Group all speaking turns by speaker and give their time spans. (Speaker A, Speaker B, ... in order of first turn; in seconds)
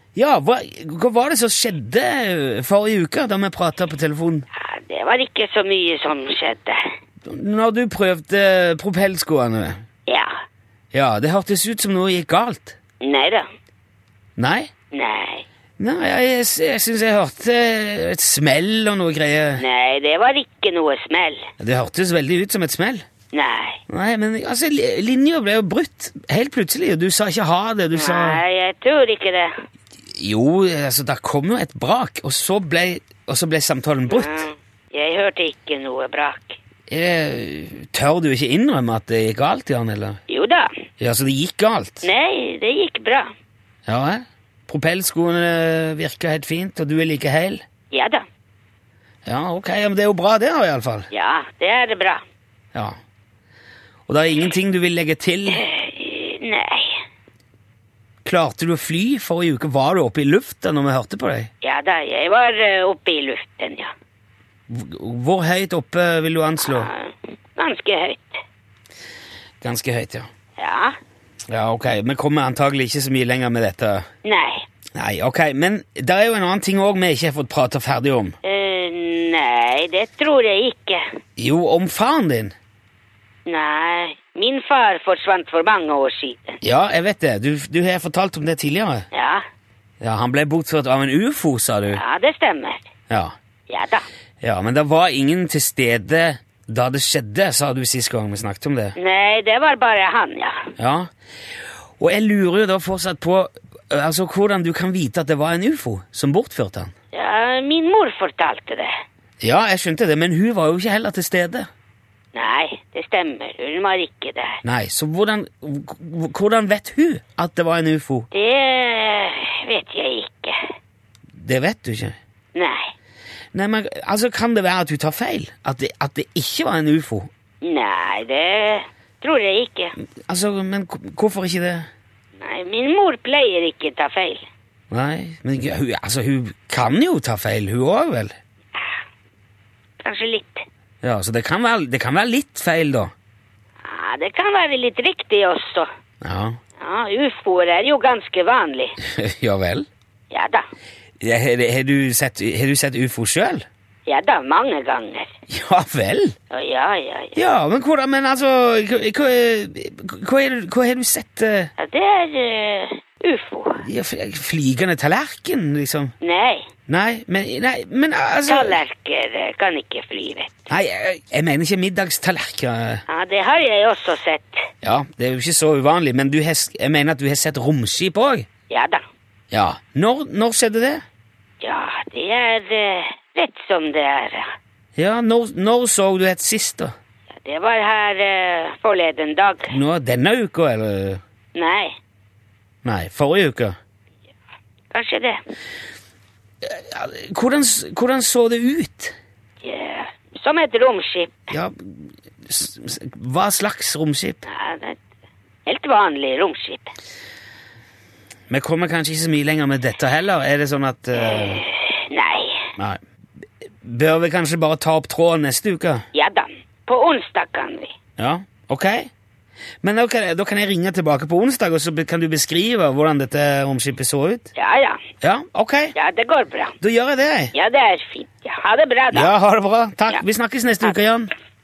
Speaker A: 0.1-4.5, 7.2-9.8, 10.9-12.8, 14.4-14.7, 15.8-19.6, 21.6-23.0, 23.9-28.4, 30.1-34.5, 36.9-40.2, 41.0-42.1, 43.9-47.6, 49.3-51.1, 54.1-55.6, 58.2-61.5, 64.7-66.9, 69.6-70.3, 71.5-74.1, 75.0-78.4, 81.4-82.5, 86.6-89.1, 90.0-92.0, 94.4-99.0, 100.8-101.1, 102.0-106.9, 109.4-111.7, 114.6-118.3, 121.3-122.2, 123.5-127.3, 130.3-131.9, 134.9-138.3, 141.0-143.1, 146.2-146.6, 149.0-149.9, 151.2-153.7, 155.5-156.3, 157.3-161.7, 163.8-166.1, 166.9-168.8, 170.7-173.0, 174.8-178.5, 179.5-181.0, 185.0-186.9, 189.7-191.2, 192.8-193.8, 196.6-199.2, 201.5-204.5, 208.5-211.7, 213.6-216.0, 218.2-219.1, 219.8-224.5, 225.2-225.9, 226.8-227.5, 229.1-231.3
Speaker B: 4.5-6.9, 10.1-10.3, 13.0-13.5, 14.9-15.5, 19.6-21.5, 23.3-23.8, 27.9-29.5, 34.1-36.6, 40.3-40.7, 42.0-43.3, 47.9-48.2, 51.1-52.2, 55.5-57.0, 61.6-63.9, 66.6-68.4, 70.6-71.0, 74.2-74.7, 78.4-81.0, 83.5-86.6, 89.1-89.4, 91.9-92.9, 93.7-94.0, 99.0-100.7, 107.1-108.9, 112.3-114.6, 118.3-120.7, 122.5-122.9, 127.6-129.9, 132.4-134.4, 140.0-140.6, 143.8-145.9, 146.8-149.0, 150.3-150.6, 154.1-155.3, 156.5-157.4, 161.8-163.8, 166.2-166.7, 168.4-170.7, 173.1-174.6, 178.7-179.1, 181.6-184.5, 187.3-189.7, 191.6-191.9, 194.9-195.4, 199.6-201.5, 204.5-205.0, 205.7-206.9, 211.2-212.7, 216.1-217.9, 224.6-225.0, 225.9-226.8, 227.5-229.3